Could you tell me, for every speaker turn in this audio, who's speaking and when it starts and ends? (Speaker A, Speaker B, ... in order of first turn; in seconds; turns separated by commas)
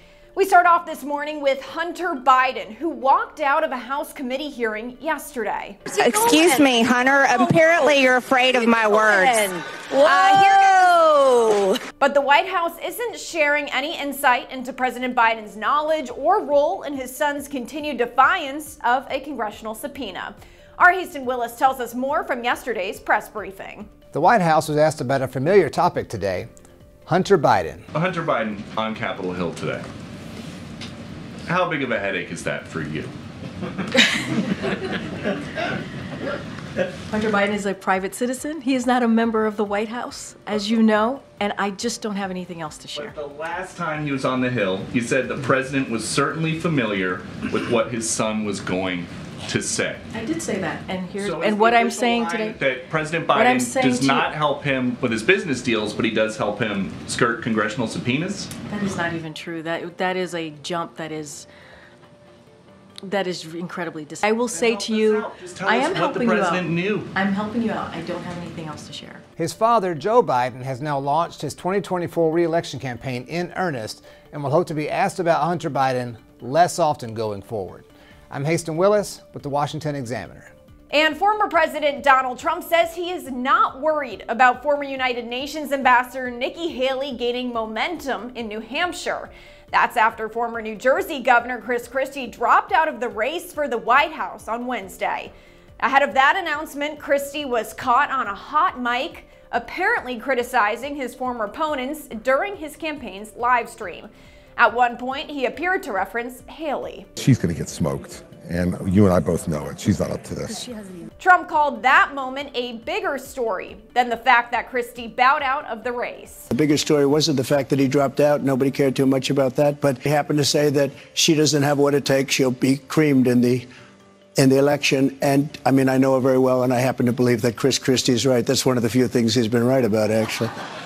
Speaker A: 0.3-5.8, Speaker B: 5.8-11.8, Speaker A: 12.0-23.9, Speaker C: 24.1-26.5, Speaker C: 27.1-27.8, Speaker D: 27.9-29.8, Speaker D: 31.4-33.1, Speaker E: 37.1-43.1, Speaker D: 40.5-40.8, Speaker D: 42.9-50.0, Speaker E: 50.1-52.6, Speaker D: 51.2-58.5, Speaker E: 53.3-54.3, Speaker E: 58.7-61.5, Speaker E: 63.0-69.2, Speaker D: 64.5-67.1, Speaker C: 69.4-80.5, Speaker A: 80.9-107.1, Speaker F: 107.2-110.6, Speaker A: 111.2-116.5, Speaker G: 116.5-123.7, Speaker G: 124.4-130.5